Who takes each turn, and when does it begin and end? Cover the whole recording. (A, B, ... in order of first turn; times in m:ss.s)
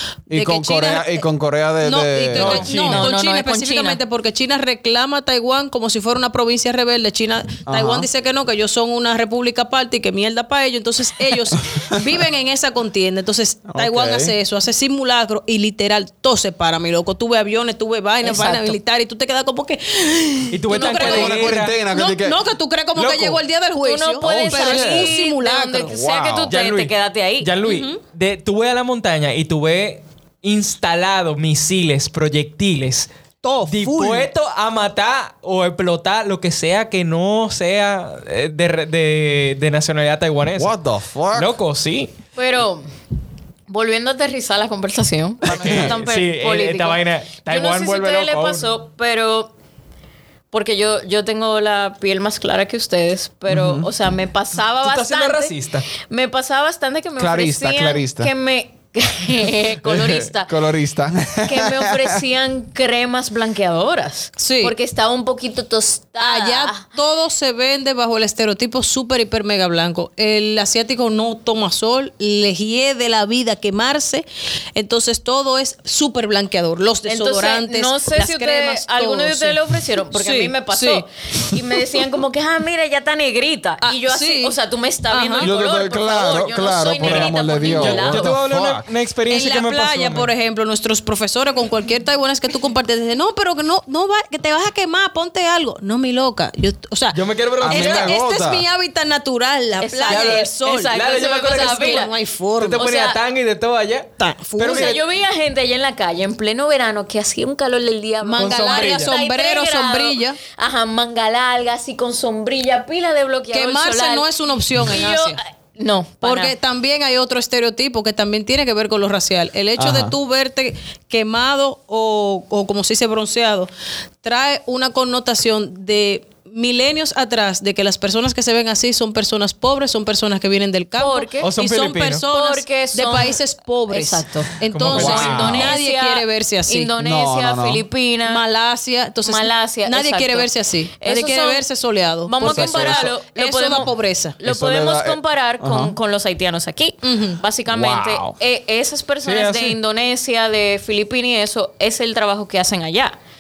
0:00.3-0:01.2 A
0:00.3-0:02.8 B
0:01.8-0:25.9 A
0:02.4-0:03.1 C
0:02.4-0:04.0 D
0:07.7-0:08.1 B
0:13.7-0:14.4 B
0:18.2-0:18.8 D
0:20.5-0:21.8 C
0:20.8-0:22.4 B
0:23.0-0:23.4 C
0:23.8-0:27.5 D
0:24.2-0:25.2 B
0:25.8-0:26.5 B
0:26.5-0:33.1 C
0:27.6-0:28.0 A
0:33.4-0:34.3 A
0:33.7-0:40.7 C
0:40.6-0:41.5 B
0:41.3-0:42.1 C
0:42.4-0:42.9 D
0:43.7-0:49.5 D
0:45.5-0:48.7 C
0:45.5-0:45.9 B
0:50.5-1:00.5 D
0:53.5-0:53.9 B
0:54.8-0:55.9 C
0:57.2-0:58.3 B
0:59.8-1:02.2 B
1:01.4-1:06.8 D
1:04.4-1:04.8 A
1:06.2-1:21.6 A
1:17.1-1:28.3 D
1:23.8-1:24.6 A
1:25.1-1:25.5 A
1:25.4-1:28.9 B
1:27.0-1:30.3 C
1:29.3-1:42.8 A
1:37.1-1:38.1 C
1:37.6-1:38.6 B
1:39.8-1:42.1 D
1:40.1-1:45.0 C
1:42.8-1:43.2 D
1:44.2-1:45.0 A
1:44.6-1:56.5 D
1:48.2-1:50.4 A
1:48.4-1:49.2 C
1:53.5-1:55.4 A
1:56.2-2:03.7 A
1:59.8-2:00.2 B
2:04.2-2:16.9 A
2:11.0-2:11.5 D
2:11.4-2:12.3 C
2:12.3-2:18.4 D
2:14.7-2:15.7 C
2:14.9-2:15.7 B
2:17.0-2:17.8 B
2:18.3-2:24.4 A
2:19.2-2:21.7 D
2:22.3-2:33.2 D
2:22.4-2:23.1 B
2:24.4-2:26.0 B
2:27.0-2:27.4 A
2:27.7-2:28.4 B
2:29.2-2:29.8 C